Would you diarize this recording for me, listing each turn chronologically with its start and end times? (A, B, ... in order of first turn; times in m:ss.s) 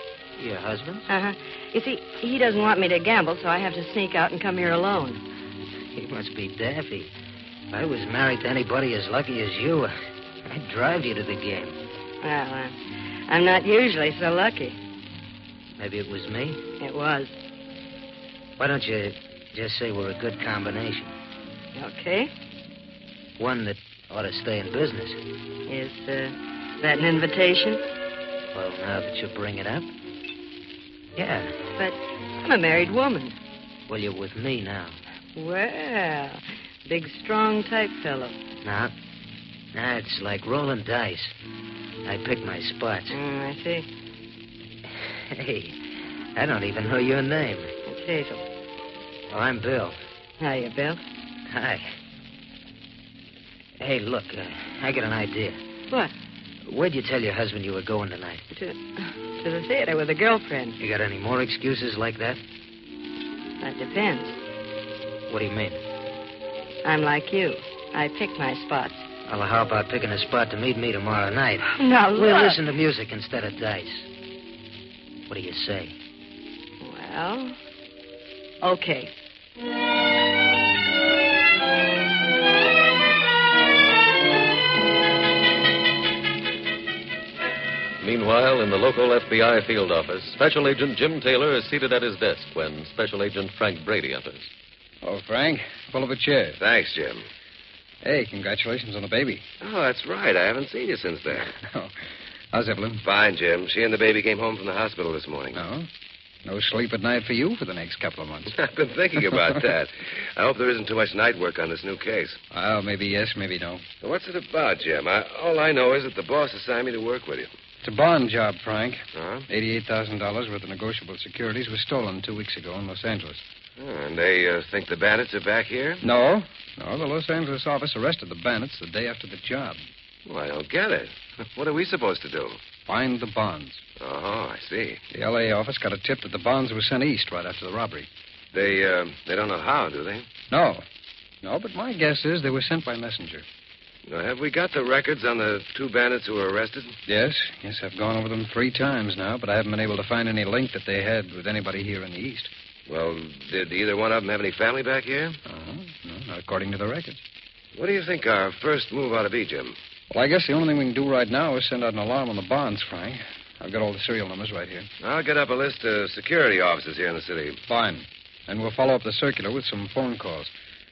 0:00.4-0:01.1 A
0:01.1-0:05.2 B
0:05.9-0:07.1 A
0:07.7-0:09.9 A
0:10.4-0:11.8 A
0:12.2-0:14.8 B
0:15.8-0:16.6 A
0:16.8-0:17.3 B
0:18.6-0:21.1 A
0:21.8-0:22.3 B
0:23.4-0:25.2 A
0:25.7-0:27.8 B
0:28.5-0:29.9 A
0:31.2-0:31.6 A
0:31.8-0:33.4 B
0:33.9-0:35.0 A
0:35.4-0:38.4 B
0:38.6-0:38.9 A
0:39.7-0:41.3 A
0:42.0-0:43.2 A
0:43.1-0:43.9 B
0:44.9-0:45.8 A
0:46.4-0:47.7 A
0:47.9-0:48.4 B
0:49.3-0:50.0 A
0:50.4-0:51.0 B
0:51.5-0:51.9 A
0:53.8-0:55.6 A
0:56.6-0:58.5 A
0:58.5-1:00.8 B
1:00.8-1:02.4 A
1:03.6-1:04.4 B
1:05.3-1:05.8 A
1:06.8-1:09.1 B
1:09.2-1:14.1 A
1:11.6-1:12.6 B
1:15.3-1:16.0 A
1:16.8-1:17.6 B
1:18.6-1:19.1 B
1:28.0-1:34.5 C
1:35.0-1:36.6 D
1:36.6-1:37.2 E
1:38.0-1:39.4 D
1:39.6-1:41.5 E
1:41.6-1:41.9 D
1:42.5-1:43.0 D
1:43.0-1:45.6 E
1:45.6-1:45.9 D
1:46.4-1:48.5 D
1:48.6-1:52.4 E
1:52.5-1:53.8 D
1:54.0-1:57.5 E
1:57.8-2:03.4 D
1:59.2-1:59.5 E
2:03.8-2:06.0 E
2:06.0-2:09.8 D
2:10.3-2:12.6 E
2:12.9-2:13.8 D
2:14.0-2:15.0 E
2:15.1-2:18.1 D
2:18.5-2:20.3 E
2:20.5-2:20.8 D
2:21.4-2:23.4 D
2:24.1-2:27.0 E
2:27.1-2:32.5 D
2:32.9-2:35.4 E
2:35.5-2:37.2 D
2:37.8-2:39.8 E
2:40.1-2:44.9 D
2:45.0-2:47.6 E
2:47.7-2:50.5 D